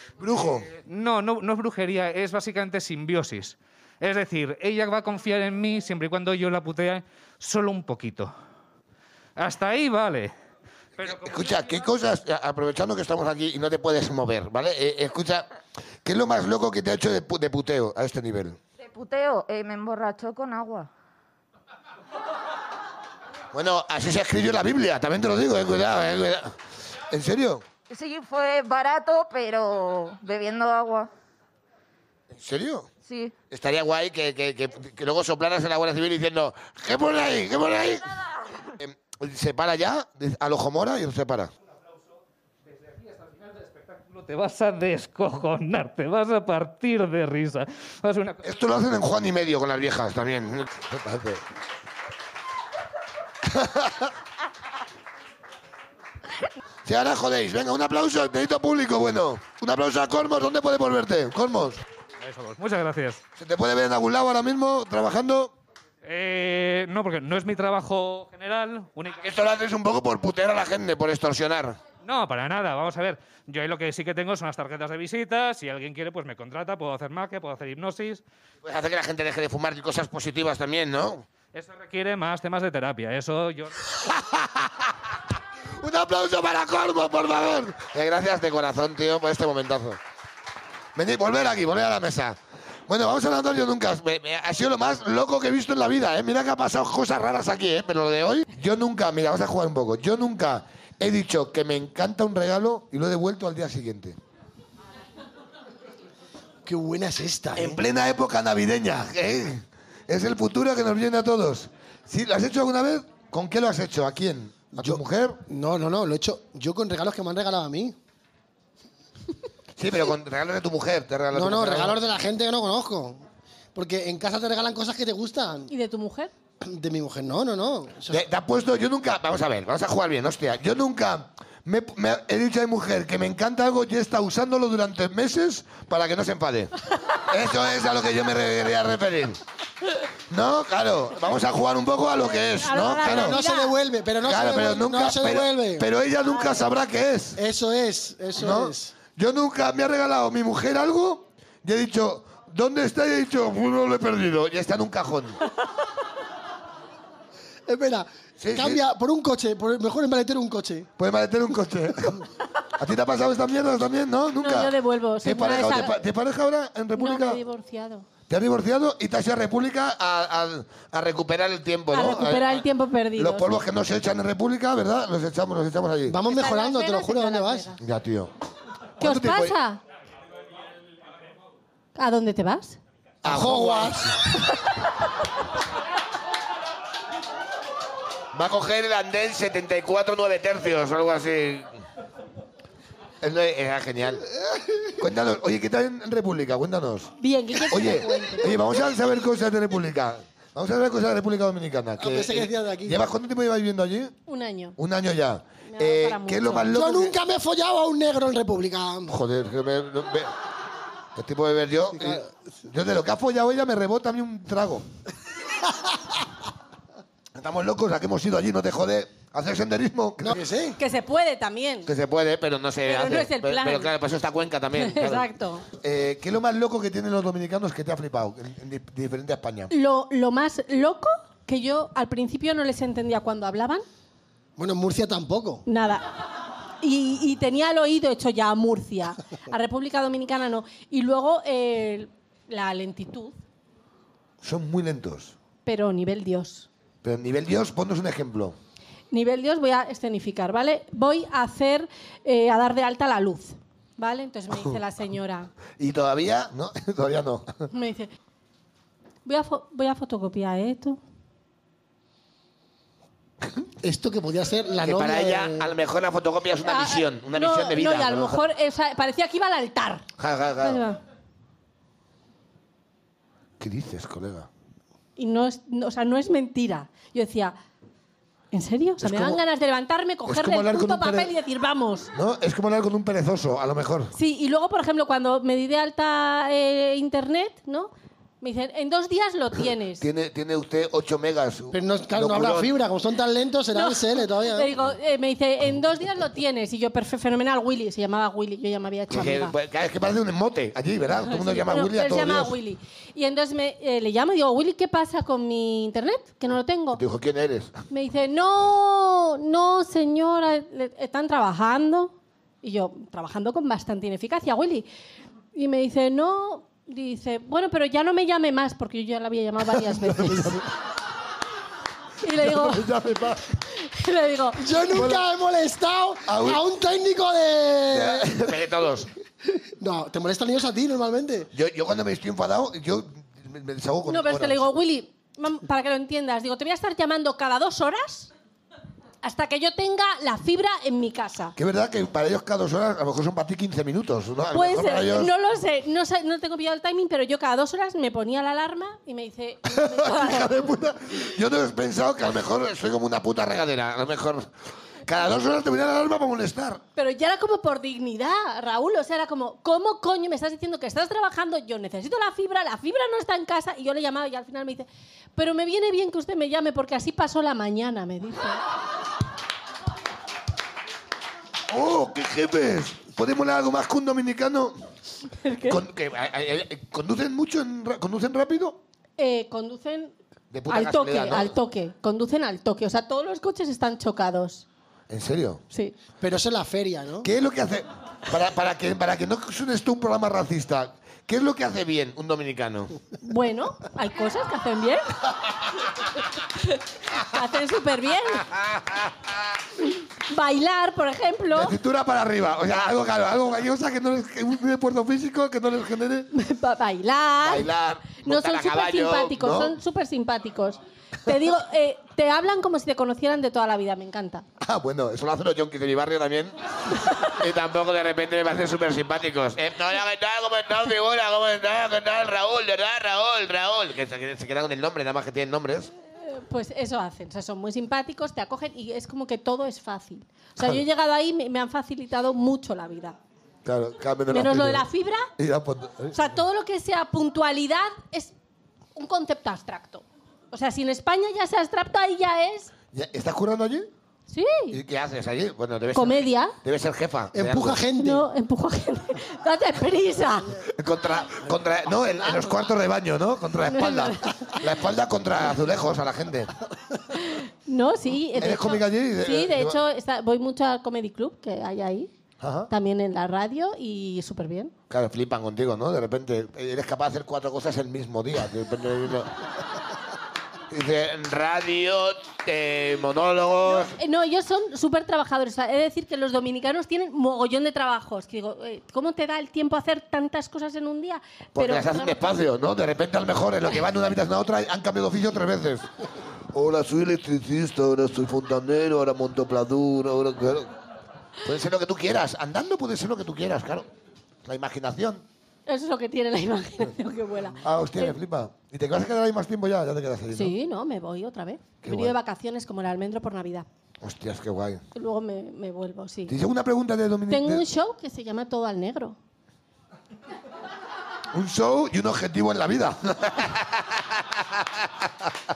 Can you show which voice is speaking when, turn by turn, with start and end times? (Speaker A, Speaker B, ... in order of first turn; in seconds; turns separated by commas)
Speaker A: 0.2-0.7, Speaker B: 0.6-8.3, Speaker B: 9.4-10.3, Speaker B: 11.0-11.8, Speaker A: 11.0-15.5, Speaker A: 16.0-18.6, Speaker C: 18.8-20.9, Speaker A: 23.5-26.6, Speaker A: 27.1-27.6, Speaker C: 27.9-31.1, Speaker A: 32.3-32.9, Speaker C: 33.0-33.4, Speaker A: 33.5-38.1, Speaker A: 38.8-41.5, Speaker B: 42.7-48.4, Speaker A: 48.4-51.4, Speaker A: 53.5-54.1, Speaker A: 56.9-61.8, Speaker B: 62.2-63.2, Speaker A: 63.4-65.5, Speaker B: 66.0-69.2, Speaker A: 69.2-71.8, Speaker B: 72.0-78.2, Speaker A: 78.6-81.3, Speaker B: 81.5-83.8, Speaker A: 84.1-84.7, Speaker A: 85.8-90.0, Speaker A: 91.0-104.2, Speaker D: 106.7-107.8, Speaker A: 107.6-115.4, Speaker D: 114.8-118.0, Speaker A: 119.8-122.0, Speaker D: 121.3-123.2, Speaker D: 123.8-125.7, Speaker E: 125.7-126.3, Speaker D: 126.6-128.2, Speaker A: 128.1-139.4, Speaker A: 140.3-143.4, Speaker E: 142.6-143.8, Speaker D: 143.0-145.9, Speaker A: 144.2-147.4, Speaker D: 147.4-148.9, Speaker A: 148.4-155.4, Speaker D: 157.7-160.9, Speaker A: 158.4-158.8, Speaker A: 161.0-162.3, Speaker A: 162.8-167.4, Speaker E: 164.4-166.0, Speaker E: 167.0-168.1, Speaker A: 168.3-172.6, Speaker E: 171.9-173.6, Speaker A: 173.2-176.2, Speaker D: 176.1-177.7, Speaker E: 176.2-177.8, Speaker A: 177.8-178.3, Speaker A: 179.0-179.6, Speaker E: 179.0-179.8, Speaker E: 182.0-182.8, Speaker A: 183.2-184.2, Speaker D: 183.2-184.2, Speaker A: 188.3-191.7, Speaker A: 193.2-194.2, Speaker A: 195.0-197.1, Speaker E: 197.2-198.6, Speaker A: 197.7-204.1, Speaker D: 202.0-203.1, Speaker E: 204.3-204.8, Speaker A: 204.8-207.2, Speaker E: 205.7-206.7, Speaker D: 206.7-209.2, Speaker A: 209.1-210.3, Speaker A: 211.2-214.9, Speaker D: 211.9-212.3, Speaker A: 217.3-220.4, Speaker D: 220.2-220.8, Speaker E: 220.8-221.9, Speaker A: 221.9-225.3, Speaker E: 222.9-223.9, Speaker E: 224.7-225.7, Speaker A: 225.8-229.7, Speaker E: 229.7-233.8, Speaker D: 234.6-235.7, Speaker E: 235.7-236.1, Speaker E: 236.8-243.3, Speaker A: 244.4-245.3, Speaker E: 245.7-246.7, Speaker A: 247.0-248.6, Speaker E: 249.1-255.5, Speaker A: 255.8-257.6, Speaker E: 257.7-258.1, Speaker E: 259.2-261.0, Speaker D: 263.8-265.7, Speaker A: 264.8-268.4, Speaker E: 266.6-270.1, Speaker A: 270.2-270.8, Speaker E: 270.6-271.0, Speaker A: 273.6-274.5, Speaker E: 275.2-277.6, Speaker E: 278.5-282.1, Speaker A: 279.0-279.4, Speaker A: 280.3-281.3, Speaker A: 282.1-284.1, Speaker E: 284.1-290.1, Speaker A: 290.0-292.7, Speaker D: 291.7-294.7, Speaker E: 293.7-299.6, Speaker A: 299.1-302.5, Speaker E: 301.3-307.0, Speaker A: 306.9-307.7, Speaker E: 307.9-314.9, Speaker E: 315.6-320.6, Speaker A: 319.9-320.6, Speaker E: 322.2-322.9, Speaker A: 322.4-323.4, Speaker E: 323.7-324.6, Speaker D: 324.6-328.5, Speaker A: 324.9-325.2, Speaker A: 326.3-326.6, Speaker A: 327.9-329.1, Speaker D: 329.4-331.5, Speaker A: 331.5-334.6, Speaker E: 334.1-338.3, Speaker E: 339.2-341.6, Speaker A: 341.6-345.3, Speaker E: 344.5-350.7, Speaker A: 349.7-354.5, Speaker A: 355.1-356.8, Speaker E: 357.0-368.6, Speaker A: 371.7-374.8, Speaker E: 375.4-375.8, Speaker A: 375.7-378.8, Speaker E: 379.2-380.1, Speaker A: 380.5-381.5, Speaker E: 380.7-384.6, Speaker A: 385.1-385.6, Speaker D: 386.2-387.3, Speaker A: 387.2-393.0, Speaker E: 393.2-395.1, Speaker E: 397.1-398.5, Speaker A: 398.6-399.1, Speaker E: 400.3-401.8, Speaker A: 401.5-406.3, Speaker E: 406.3-407.7, Speaker A: 407.4-409.8, Speaker E: 408.2-414.4, Speaker A: 414.6-425.9, Speaker E: 426.2-433.2, Speaker A: 433.6-434.9, Speaker E: 434.3-435.3, Speaker A: 435.4-436.2, Speaker E: 436.1-438.3, Speaker E: 438.9-442.7, Speaker A: 442.9-443.9, Speaker E: 444.3-444.8, Speaker A: 444.7-447.8, Speaker E: 445.9-446.6, Speaker D: 447.3-448.3, Speaker E: 448.0-450.5, Speaker A: 450.8-456.5, Speaker D: 452.2-452.5, Speaker E: 453.7-454.5, Speaker E: 457.1-462.1, Speaker A: 458.4-459.8, Speaker A: 462.4-462.7, Speaker E: 462.7-464.7, Speaker A: 464.9-469.3, Speaker A: 470.7-473.9, Speaker E: 473.6-482.2, Speaker A: 481.6-485.9, Speaker A: 486.5-490.7, Speaker A: 491.4-493.9, Speaker A: 494.4-495.2, Speaker E: 495.7-498.2, Speaker A: 497.6-500.5, Speaker E: 500.3-503.7, Speaker A: 501.8-502.1, Speaker A: 504.0-504.8, Speaker E: 504.9-506.4, Speaker A: 506.3-507.6, Speaker E: 507.3-509.2, Speaker A: 511.3-515.1